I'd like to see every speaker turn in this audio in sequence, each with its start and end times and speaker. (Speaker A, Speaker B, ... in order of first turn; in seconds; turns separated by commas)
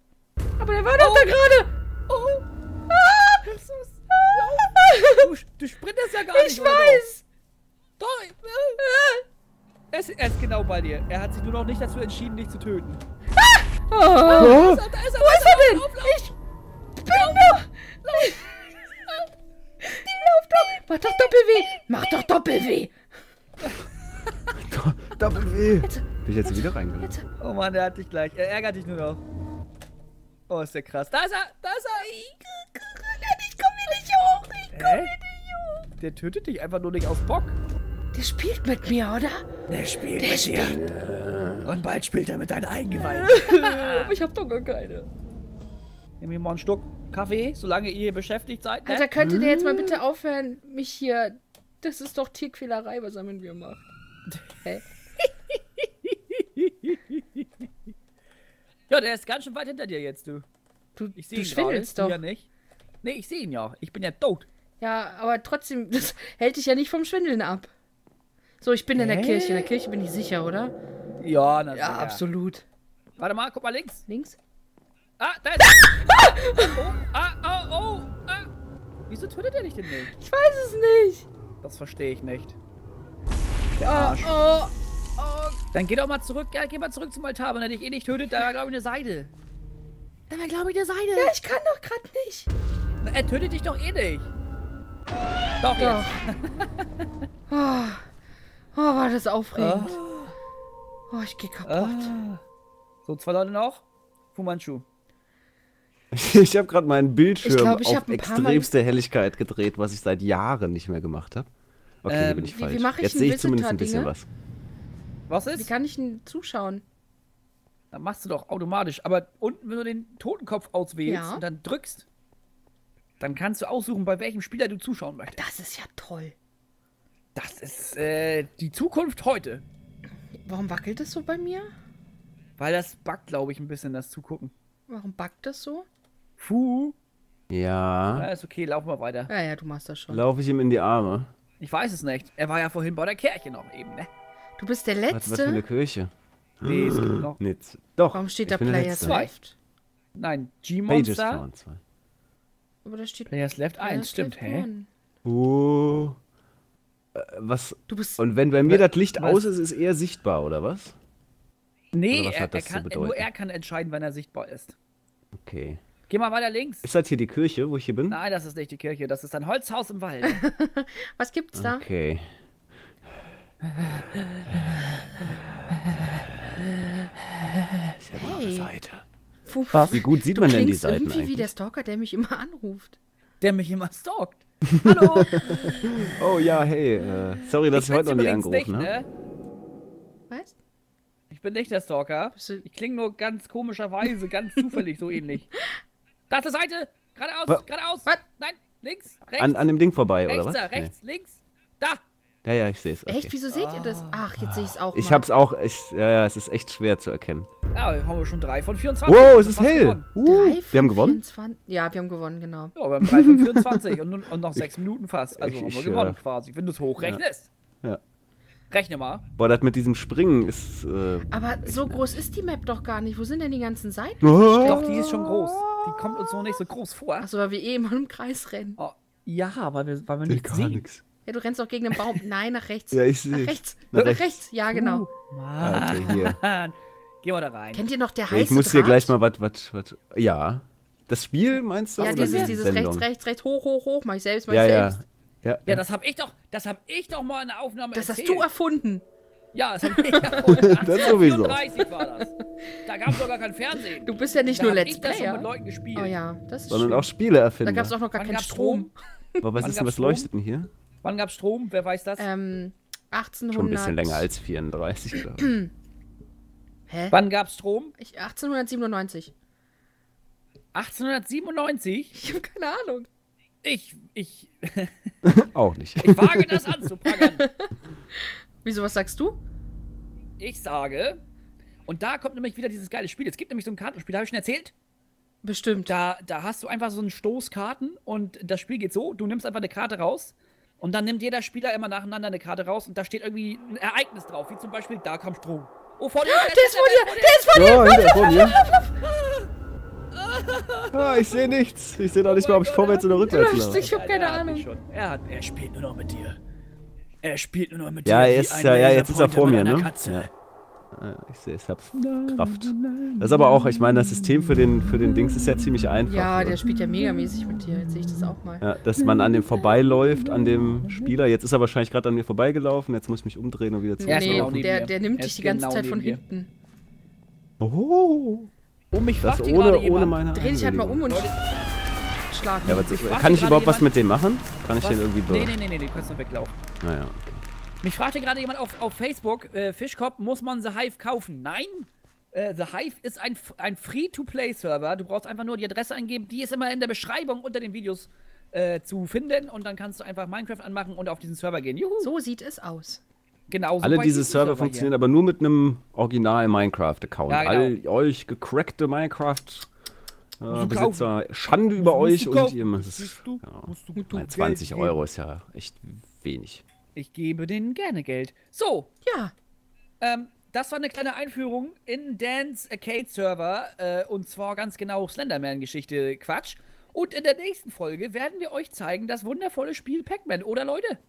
Speaker A: 0.6-1.7, Speaker B: 1.0-1.6, Speaker B: 2.1-7.1, Speaker A: 4.8-5.3, Speaker A: 6.3-7.2, Speaker B: 8.0-8.8, Speaker A: 8.8-9.2, Speaker B: 9.9-13.0, Speaker A: 13.4-16.3, Speaker B: 14.2-16.3, Speaker C: 14.4-14.8, Speaker A: 17.1-18.7, Speaker B: 17.1-17.5, Speaker A: 19.8-22.9, Speaker C: 24.6-27.1, Speaker A: 25.8-27.2, Speaker B: 27.4-29.2, Speaker B: 30.5-32.5, Speaker A: 32.6-35.9, Speaker B: 34.7-35.1, Speaker B: 36.0-37.6, Speaker A: 38.1-39.5, Speaker B: 39.7-40.8, Speaker A: 40.1-40.8, Speaker C: 40.9-41.7, Speaker B: 41.6-44.1, Speaker A: 43.0-45.1, Speaker B: 46.2-49.1, Speaker A: 48.9-53.9, Speaker C: 49.2-50.0, Speaker B: 55.2-57.5, Speaker B: 58.9-60.5, Speaker A: 61.0-62.2, Speaker B: 61.2-62.5, Speaker B: 63.0-64.5, Speaker A: 64.8-67.7, Speaker A: 68.6-70.8, Speaker B: 69.0-69.7, Speaker B: 71.2-72.2, Speaker A: 71.7-72.7, Speaker B: 73.2-74.1, Speaker A: 74.1-74.4, Speaker B: 75.2-75.9, Speaker A: 76.1-76.8, Speaker B: 76.6-78.5, Speaker B: 79.1-80.1, Speaker A: 80.1-81.3, Speaker B: 81.6-82.6, Speaker B: 83.8-84.3, Speaker A: 83.8-85.6, Speaker B: 85.7-89.3, Speaker B: 90.3-91.3, Speaker A: 91.2-92.5, Speaker B: 93.0-94.3, Speaker B: 95.6-96.8, Speaker A: 95.8-96.1, Speaker A: 97.5-98.0, Speaker A: 98.7-100.0, Speaker B: 99.6-100.3, Speaker A: 101.1-102.1, Speaker B: 101.7-102.4, Speaker B: 103.0-104.8, Speaker C: 106.1-111.5, Speaker A: 107.4-108.7, Speaker C: 112.0-114.3, Speaker B: 112.1-112.5, Speaker A: 112.5-114.1, Speaker B: 115.3-115.7, Speaker A: 115.6-116.8, Speaker B: 117.9-122.1, Speaker A: 121.0-121.5, Speaker B: 123.2-125.4, Speaker A: 125.3-126.3, Speaker B: 127.3-129.7, Speaker A: 130.4-131.7, Speaker B: 132.6-134.5, Speaker A: 134.9-135.9, Speaker B: 136.4-136.9, Speaker C: 137.5-138.3, Speaker B: 138.2-139.3, Speaker A: 139.3-140.2, Speaker C: 140.1-141.3, Speaker B: 141.6-144.1, Speaker A: 144.6-145.6, Speaker C: 145.1-146.1, Speaker B: 146.6-147.4, Speaker C: 146.6-149.2, Speaker A: 148.1-149.6, Speaker B: 149.0-149.3, Speaker B: 150.2-151.4, Speaker C: 150.9-151.8, Speaker A: 152.8-154.9, Speaker B: 153.3-154.7, Speaker C: 155.2-156.2, Speaker C: 157.2-160.9, Speaker A: 157.9-158.2, Speaker B: 158.6-159.5, Speaker B: 161.9-164.8, Speaker C: 162.1-163.3, Speaker C: 165.4-165.8, Speaker B: 166.1-166.9, Speaker C: 166.8-168.2, Speaker B: 168.1-170.4, Speaker A: 170.2-171.8, Speaker C: 171.6-172.3, Speaker B: 173.8-174.7, Speaker C: 178.1-179.0, Speaker A: 178.1-178.7, Speaker A: 179.5-183.0, Speaker C: 179.8-181.5, Speaker B: 183.4-185.9, Speaker C: 185.9-188.9, Speaker B: 187.7-189.1, Speaker A: 190.3-190.6, Speaker B: 191.3-195.5, Speaker A: 192.3-192.7, Speaker B: 196.3-199.7, Speaker C: 199.4-200.9, Speaker B: 200.3-202.0, Speaker C: 202.4-203.3, Speaker A: 203.1-205.3, Speaker B: 203.5-204.2, Speaker C: 204.4-207.5, Speaker B: 207.7-210.1, Speaker C: 209.1-211.2, Speaker A: 210.2-212.8, Speaker B: 212.8-217.5, Speaker C: 215.3-216.2, Speaker B: 218.7-219.2, Speaker C: 219.4-222.0, Speaker A: 221.3-224.9, Speaker C: 224.2-226.1, Speaker B: 224.6-227.3, Speaker A: 227.2-228.8, Speaker B: 228.8-230.8, Speaker C: 230.3-231.0, Speaker A: 231.2-235.1, Speaker C: 232.9-234.4, Speaker B: 233.9-237.9, Speaker C: 235.6-236.4, Speaker A: 237.7-239.1, Speaker C: 238.3-243.1, Speaker A: 242.0-245.0, Speaker B: 242.0-242.6, Speaker C: 244.5-245.8, Speaker B: 245.7-248.5, Speaker A: 247.9-249.1, Speaker B: 249.5-252.3, Speaker A: 249.8-251.2, Speaker C: 250.4-251.6, Speaker A: 252.0-252.4, Speaker B: 252.8-256.2, Speaker A: 254.0-257.1, Speaker C: 256.7-258.0, Speaker A: 257.6-259.6, Speaker B: 258.1-258.9, Speaker C: 259.4-260.7, Speaker B: 259.6-260.3, Speaker B: 261.0-262.3, Speaker A: 262.2-264.3, Speaker C: 263.5-265.6, Speaker A: 265.2-265.7, Speaker A: 266.9-267.2, Speaker B: 267.1-267.9, Speaker A: 268.0-269.3, Speaker B: 270.7-272.2, Speaker A: 272.1-273.1, Speaker B: 273.6-275.1, Speaker C: 275.2-276.9, Speaker B: 276.0-277.5, Speaker A: 277.1-277.7, Speaker A: 278.6-279.4, Speaker B: 280.4-281.2, Speaker B: 281.9-284.7, Speaker A: 285.4-286.0, Speaker B: 285.8-299.5, Speaker A: 296.2-298.9, Speaker C: 297.5-298.6, Speaker B: 300.1-301.4, Speaker C: 300.9-303.9, Speaker B: 302.2-306.4, Speaker A: 303.3-304.7, Speaker B: 307.2-310.3, Speaker C: 308.1-310.3, Speaker C: 310.9-316.6, Speaker B: 311.9-315.9, Speaker A: 316.1-318.7, Speaker B: 316.7-318.3, Speaker C: 318.6-324.7, Speaker B: 319.0-321.1, Speaker A: 324.0-326.5, Speaker B: 324.1-326.2, Speaker C: 327.6-328.5, Speaker B: 328.9-330.2, Speaker C: 329.2-331.1, Speaker A: 330.3-331.3, Speaker B: 331.1-331.6, Speaker A: 332.3-333.2, Speaker C: 332.7-335.5, Speaker B: 332.9-333.9, Speaker B: 334.8-336.6, Speaker C: 336.8-337.4, Speaker B: 337.8-352.1, Speaker A: 352.0-353.0, Speaker B: 353.5-354.9, Speaker C: 353.8-359.7, Speaker B: 357.3-357.8, Speaker C: 360.4-366.6, Speaker B: 360.5-361.1, Speaker B: 361.7-364.9, Speaker B: 366.9-368.9, Speaker A: 369.1-369.3, Speaker B: 370.0-381.0